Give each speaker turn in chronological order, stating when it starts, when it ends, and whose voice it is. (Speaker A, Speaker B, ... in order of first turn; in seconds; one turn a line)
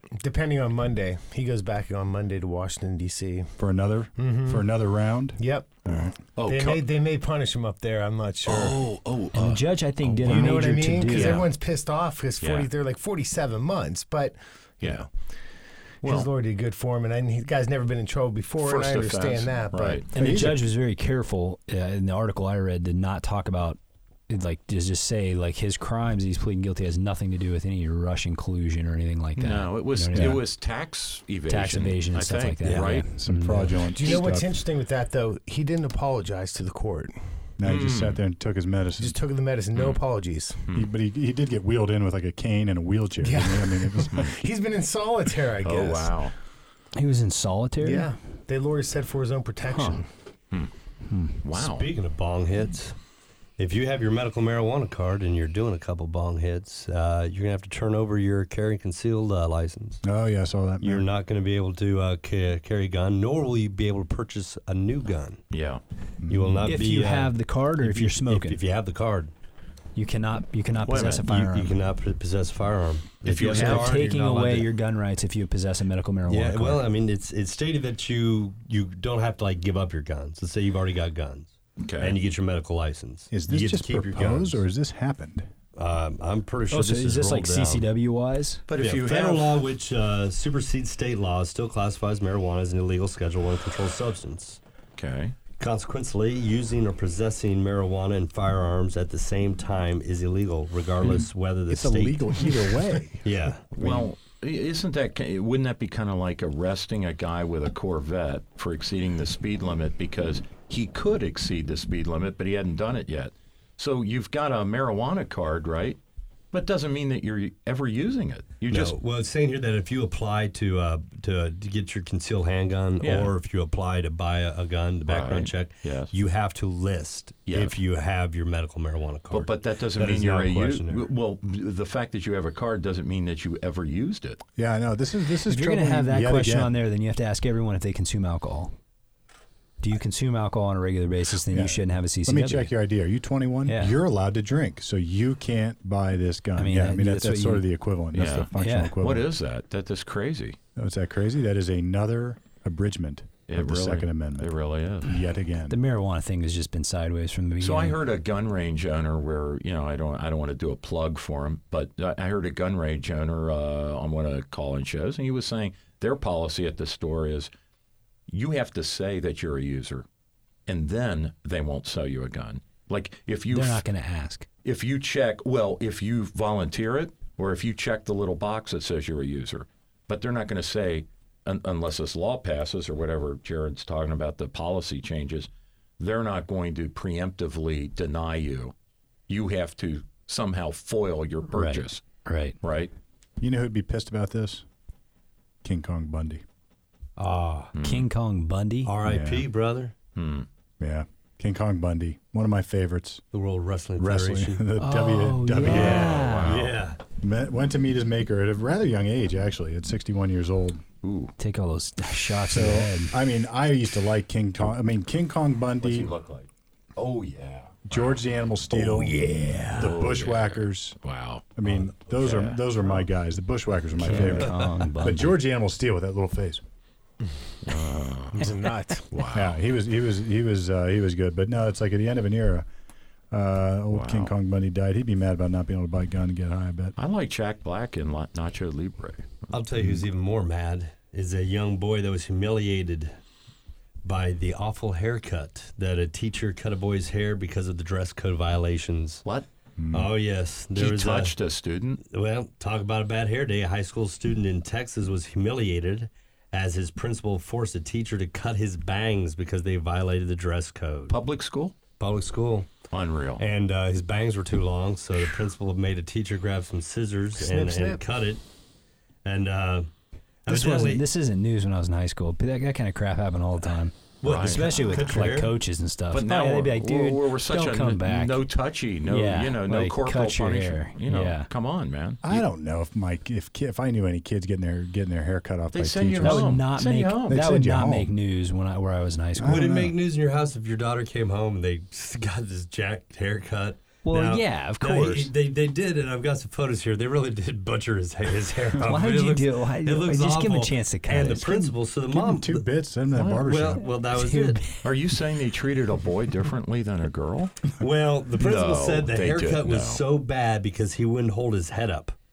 Speaker A: 0.2-3.5
Speaker B: 3.6-6.1
Speaker A: 4.2-4.6
Speaker A: 5.4-8.8
Speaker C: 6.3-6.8
Speaker C: 8.4-11.5
Speaker D: 9.3-11.4
Speaker A: 10.2-15.0
Speaker C: 12.4-12.7
Speaker C: 14.8-15.1
Speaker A: 16.0-20.0
Speaker C: 16.0-16.3
Speaker C: 18.6-20.0
Speaker B: 20.1-20.6
Speaker D: 20.1-30.4
Speaker C: 29.4-33.1
Speaker B: 30.1-30.4
Speaker D: 31.5-33.9
Speaker E: 32.6-32.9
Speaker B: 33.2-34.6
Speaker A: 33.9-37.2
Speaker B: 37.6-39.2
Speaker C: 37.6-38.2
Speaker A: 39.0-40.7
Speaker C: 39.7-40.0
Speaker B: 40.7-44.3
Speaker A: 43.2-46.2
Speaker C: 45.6-46.3
Speaker D: 46.9-48.1
Speaker A: 47.8-50.1
Speaker D: 49.7-50.0
Speaker D: 51.1-51.4
Speaker C: 51.4-51.9
Speaker E: 51.5-53.0
Speaker E: 53.6-60.0
Speaker B: 60.0-61.0
Speaker E: 60.8-65.4
Speaker C: 65.5-65.8
Speaker B: 66.2-66.8
Speaker E: 66.3-69.3
Speaker D: 66.6-68.6
Speaker D: 70.0-71.8
Speaker C: 70.8-71.2
Speaker E: 71.0-74.7
Speaker C: 73.2-74.0
Speaker D: 73.4-76.8
Speaker E: 76.3-84.6
Speaker C: 81.8-82.2
Speaker B: 83.3-85.5
Speaker E: 85.8-87.9
Speaker D: 86.7-88.6
Speaker C: 88.7-89.6
Speaker E: 88.8-94.6
Speaker C: 95.0-95.3
Speaker E: 95.6-103.7
Speaker B: 101.7-104.1
Speaker C: 103.7-116.0
Speaker C: 116.5-118.9
Speaker E: 118.7-131.1
Speaker C: 123.0-123.3
Speaker C: 125.0-126.1
Speaker C: 127.5-127.8
Speaker C: 129.3-134.4
Speaker B: 134.6-136.8
Speaker D: 135.4-138.7
Speaker D: 139.8-142.7
Speaker B: 141.5-149.3
Speaker D: 143.7-144.0
Speaker D: 146.6-147.7
Speaker C: 148.1-150.6
Speaker D: 148.6-148.9
Speaker B: 150.8-155.8
Speaker C: 153.5-155.2
Speaker D: 155.7-158.0
Speaker C: 157.6-167.5
Speaker C: 168.3-170.1
Speaker C: 170.7-173.8
Speaker D: 173.5-174.5
Speaker C: 174.6-188.7
Speaker C: 189.3-192.0
Speaker D: 191.5-192.6
Speaker C: 192.6-192.9
Speaker B: 193.4-194.7
Speaker B: 195.6-196.4
Speaker E: 197.2-197.7
Speaker C: 197.7-198.1
Speaker D: 197.8-198.9
Speaker E: 198.8-199.9
Speaker B: 199.0-199.5
Speaker C: 200.1-200.5
Speaker B: 200.8-203.2
Speaker E: 203.3-204.7
Speaker B: 204.0-206.4
Speaker D: 204.8-206.6
Speaker C: 205.6-206.7
Speaker E: 205.7-207.0
Speaker B: 207.2-210.8
Speaker C: 211.0-211.3
Speaker D: 211.4-213.2
Speaker B: 212.5-216.1
Speaker C: 215.8-218.2
Speaker B: 217.9-221.0
Speaker E: 218.8-220.0
Speaker C: 219.7-222.6
Speaker B: 221.6-226.6
Speaker D: 224.1-225.3
Speaker C: 224.1-224.4
Speaker C: 227.6-228.5
Speaker A: 228.3-229.1
Speaker C: 229.1-229.6
Speaker B: 229.3-232.7
Speaker B: 233.3-236.9
Speaker C: 233.9-234.3
Speaker C: 236.9-240.0
Speaker E: 239.5-243.2
Speaker E: 244.0-249.2
Speaker B: 249.8-250.1
Speaker E: 249.9-251.4
Speaker C: 250.7-252.0
Speaker E: 252.1-261.1
Speaker C: 261.1-261.8
Speaker E: 262.0-262.7
Speaker C: 262.9-263.4
Speaker E: 263.4-268.4
Speaker A: 267.4-268.0
Speaker E: 269.2-269.9
Speaker E: 270.4-271.0
Speaker D: 270.5-278.4
Speaker E: 274.2-275.6
Speaker C: 274.2-274.9
Speaker C: 276.1-282.4
Speaker D: 279.1-281.5
Speaker B: 282.2-286.6
Speaker C: 285.7-287.4
Speaker D: 286.2-289.7
Speaker B: 287.3-288.1
Speaker B: 289.4-289.9
Speaker E: 289.4-302.7
Speaker D: 294.0-295.3
Speaker D: 298.8-301.7
Speaker B: 302.1-303.9
Speaker C: 303.1-303.5
Speaker E: 303.3-304.6
Speaker D: 304.1-304.9
Speaker C: 304.8-307.6
Speaker E: 307.8-312.1
Speaker C: 308.4-310.0